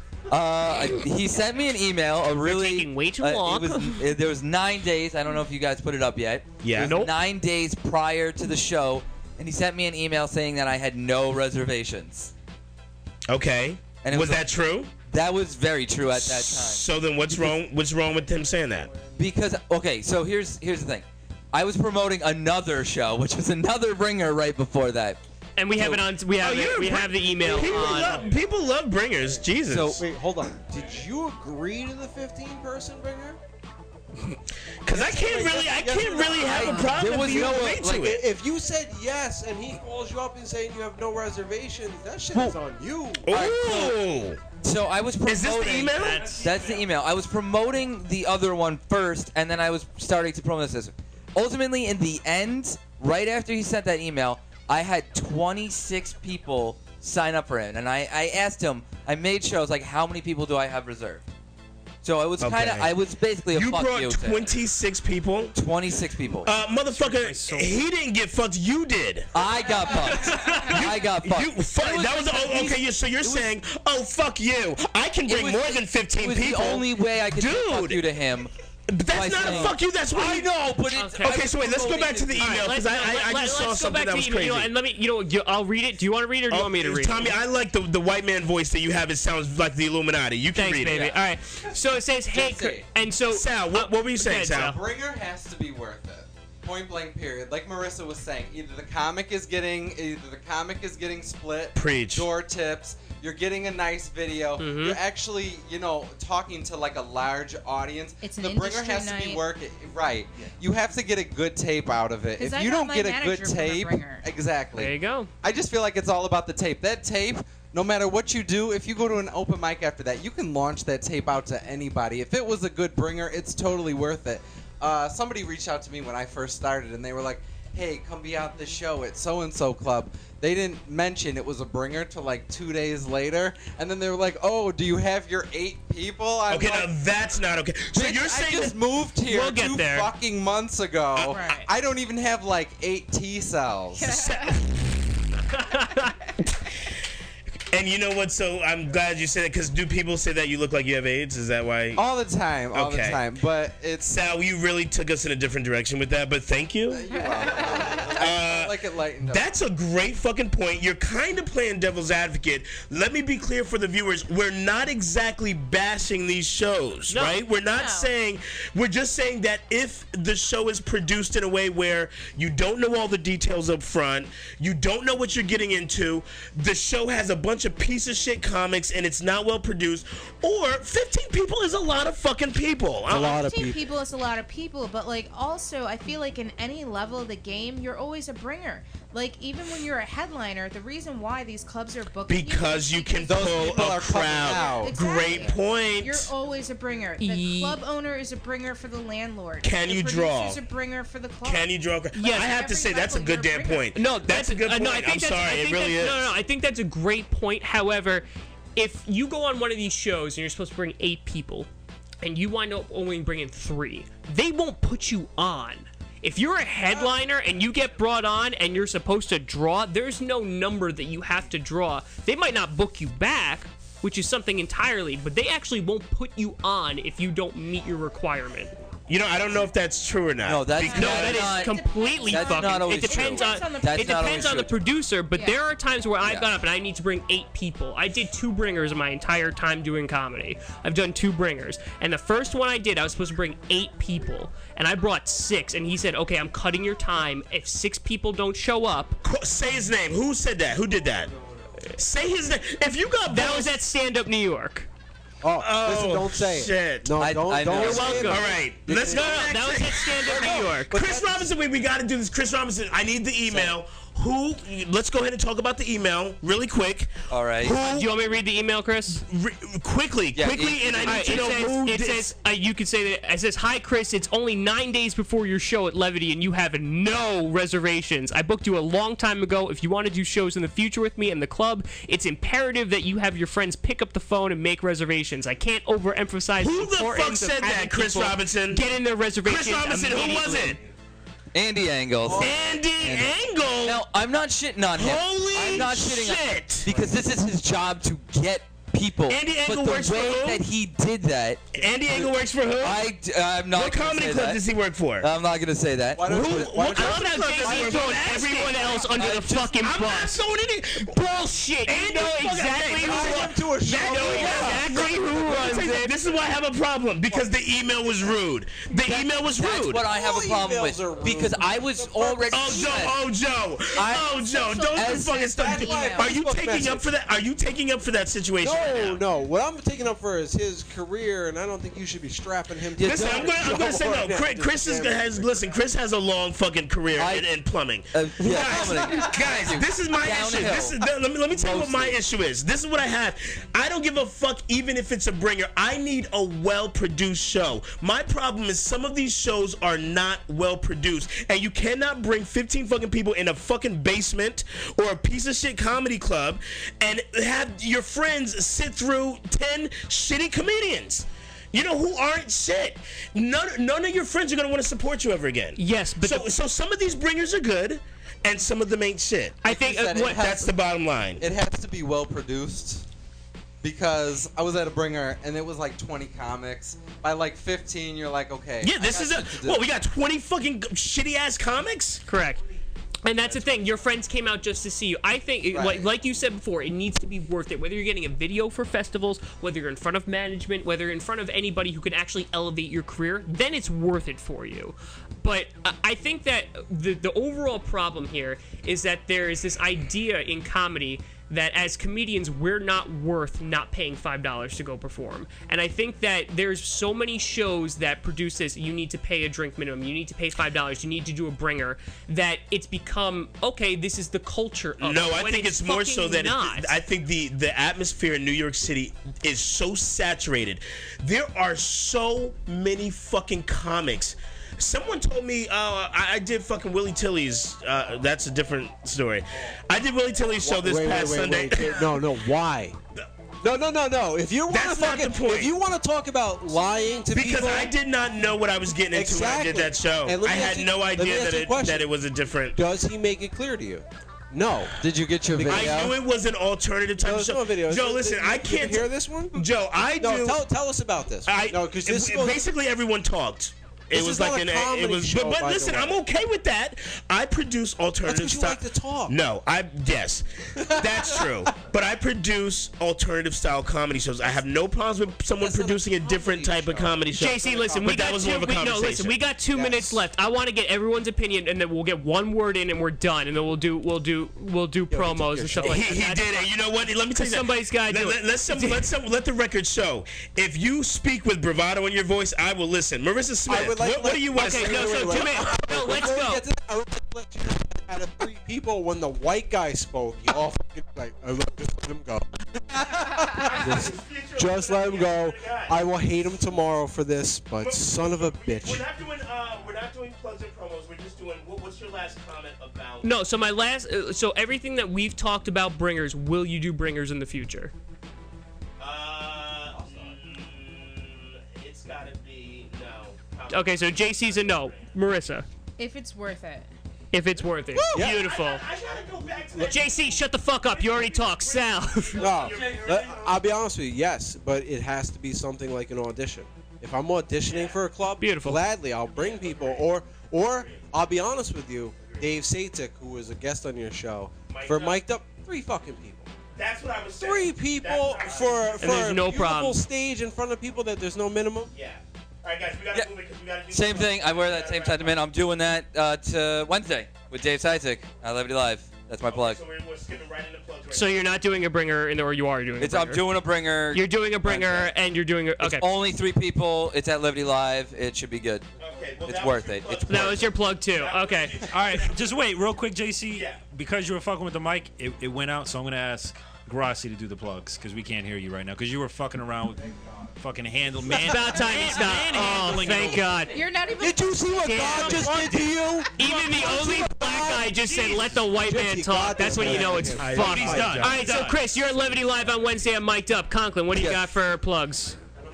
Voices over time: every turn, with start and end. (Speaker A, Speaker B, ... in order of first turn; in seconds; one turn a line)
Speaker A: 0.3-12.3
Speaker B: 2.4-4.0
Speaker C: 6.6-7.0
Speaker B: 6.8-7.1
Speaker C: 13.3-14.9
Speaker A: 14.0-17.5
Speaker C: 16.1-18.9
Speaker A: 19.1-25.2
Speaker B: 25.6-28.3
Speaker A: 25.8-26.0
Speaker C: 26.4-30.0
Speaker A: 29.7-30.0
Speaker D: 30.0-33.4
Speaker C: 34.3-38.2
Speaker D: 34.9-36.9
Speaker A: 36.4-38.2
Speaker D: 37.8-43.3
Speaker A: 43.3-44.0
Speaker C: 43.3-44.4
Speaker A: 44.6-61.2
Speaker C: 45.2-46.5
Speaker E: 46.1-46.7
Speaker A: 62.0-64.6
Speaker C: 62.4-62.9
Speaker C: 63.5-65.5
Speaker A: 65.5-66.5
Speaker C: 66.4-69.3
Speaker E: 66.9-67.8
Speaker A: 69.3-73.6
Speaker C: 70.0-78.2
Speaker A: 75.2-78.5
Speaker C: 78.9-80.7
Speaker A: 79.0-82.8
Speaker B: 80.9-81.4
Speaker C: 81.2-84.7
Speaker B: 82.4-87.3
Speaker C: 86.5-91.1
Speaker B: 90.5-94.8
Speaker F: 92.3-92.9
Speaker C: 93.3-94.7
Speaker F: 94.4-136.9
Speaker C: 101.8-102.3
Speaker B: 104.6-105.0
Speaker G: 108.2-109.4
Speaker G: 112.4-114.2
Speaker B: 114.7-115.3
Speaker C: 136.5-138.8
Speaker F: 138.0-144.2
Speaker B: 139.3-140.1
Speaker G: 141.3-141.7
Speaker G: 144.0-144.6
Speaker C: 144.0-145.2
Speaker B: 145.5-146.1
Speaker C: 147.7-152.0
Speaker F: 151.9-154.1
Speaker C: 152.7-153.2
Speaker C: 154.1-157.1
Speaker F: 156.9-159.5
Speaker G: 157.1-158.2
Speaker C: 158.2-158.7
Speaker C: 159.3-183.6
Speaker B: 167.1-167.4
Speaker G: 167.7-168.1
Speaker D: 183.1-183.8
Speaker G: 183.1-201.7
Speaker C: 192.3-196.3
Speaker F: 193.3-195.5
Speaker B: 197.2-197.8
Speaker C: 199.6-200.6
Speaker C: 201.4-206.3
Speaker B: 202.1-202.5
Speaker G: 202.2-203.9
Speaker B: 203.9-211.7
Speaker B: 212.2-228.7
Speaker C: 229.1-231.5
Speaker A: 230.4-234.8
Speaker G: 230.8-234.6
Speaker B: 231.0-249.2
Speaker G: 235.3-235.6
Speaker A: 236.2-236.5
Speaker C: 249.2-251.3
Speaker C: 252.0-253.8
Speaker B: 253.3-254.9
Speaker D: 255.4-259.6
Speaker C: 255.6-268.1
Speaker A: 257.2-258.4
Speaker B: 257.7-260.9
Speaker D: 260.2-261.5
Speaker A: 263.4-263.8
Speaker A: 267.3-267.8
Speaker B: 267.8-269.2
Speaker C: 269.1-272.3
Speaker A: 270.3-271.6
Speaker B: 271.0-290.8
Speaker C: 286.6-288.8
Speaker C: 289.4-290.8
Speaker A: 291.5-304.6
Speaker D: 292.2-292.5
Speaker C: 292.4-294.0
Speaker C: 294.9-296.9
Speaker C: 299.3-300.6
Speaker C: 301.8-303.1
Speaker C: 303.7-305.3
Speaker A: 305.2-306.8
Speaker D: 306.1-308.5
Speaker C: 306.2-311.2
Speaker B: 306.9-310.4
Speaker A: 309.0-309.7
Speaker B: 311.0-316.1
Speaker C: 311.9-320.0
Speaker D: 313.0-315.8
Speaker A: 318.9-323.2
Speaker D: 320.0-323.1
Speaker C: 322.5-329.2
Speaker A: 323.9-325.9
Speaker G: 324.5-326.3
Speaker D: 325.5-327.1
Speaker D: 328.6-335.8
Speaker A: 333.0-334.0
Speaker C: 333.0-369.6
Speaker A: 337.1-337.5
Speaker A: 338.1-342.2
Speaker D: 338.5-339.2
Speaker B: 365.8-366.5
Speaker B: 369.6-370.5
Speaker F: 369.6-370.7
Speaker C: 370.3-371.4
Speaker F: 371.4-373.1
Speaker F: 373.8-379.8
Speaker C: 378.8-382.2
Speaker B: 382.3-382.6
Speaker B: 383.2-416.9
Speaker F: 385.7-386.1
Speaker C: 415.0-432.2
Speaker D: 430.6-433.0
Speaker D: 433.6-437.9
Speaker C: 434.7-435.7
Speaker C: 437.3-442.8
Speaker D: 439.1-442.1
Speaker D: 442.8-444.9
Speaker A: 445.0-446.1
Speaker F: 445.2-446.0
Speaker D: 445.5-446.1
Speaker C: 445.6-450.6
Speaker D: 447.2-449.6
Speaker D: 450.2-452.6
Speaker C: 451.5-469.4
Speaker D: 454.1-456.2
Speaker D: 458.2-459.3
Speaker D: 460.8-461.5
Speaker D: 465.6-468.3
Speaker B: 467.3-476.7
Speaker D: 469.7-470.1
Speaker D: 475.1-476.2
Speaker C: 475.8-486.3
Speaker B: 477.3-479.1
Speaker D: 483.7-499.1
Speaker B: 484.6-486.6
Speaker C: 493.6-496.0
Speaker C: 497.8-503.5
Speaker B: 503.2-507.9
Speaker C: 509.0-515.1
Speaker B: 513.7-515.6
Speaker G: 516.0-516.9
Speaker B: 517.3-518.8
Speaker C: 518.0-520.2
Speaker D: 518.1-518.4
Speaker B: 519.9-522.4
Speaker C: 520.9-523.6
Speaker D: 522.4-536.5
Speaker C: 527.7-528.0
Speaker B: 528.4-528.8
Speaker C: 529.3-531.0
Speaker C: 534.7-535.2
Speaker C: 536.8-539.4
Speaker D: 537.4-541.9
Speaker B: 539.0-540.0
Speaker C: 541.9-545.4
Speaker A: 543.9-549.8
Speaker C: 549.5-551.5
Speaker B: 551.1-553.4
Speaker A: 553.0-555.1
Speaker B: 554.1-556.1
Speaker A: 555.8-558.9
Speaker C: 559.0-562.3
Speaker A: 559.4-560.8
Speaker B: 560.3-561.8
Speaker E: 561.9-573.7
Speaker C: 563.5-563.8
Speaker B: 571.4-573.7
Speaker G: 573.7-575.7
Speaker D: 574.2-581.3
Speaker B: 574.9-575.8
Speaker B: 576.4-585.4
Speaker E: 579.8-582.2
Speaker C: 580.6-581.6
Speaker A: 584.1-584.4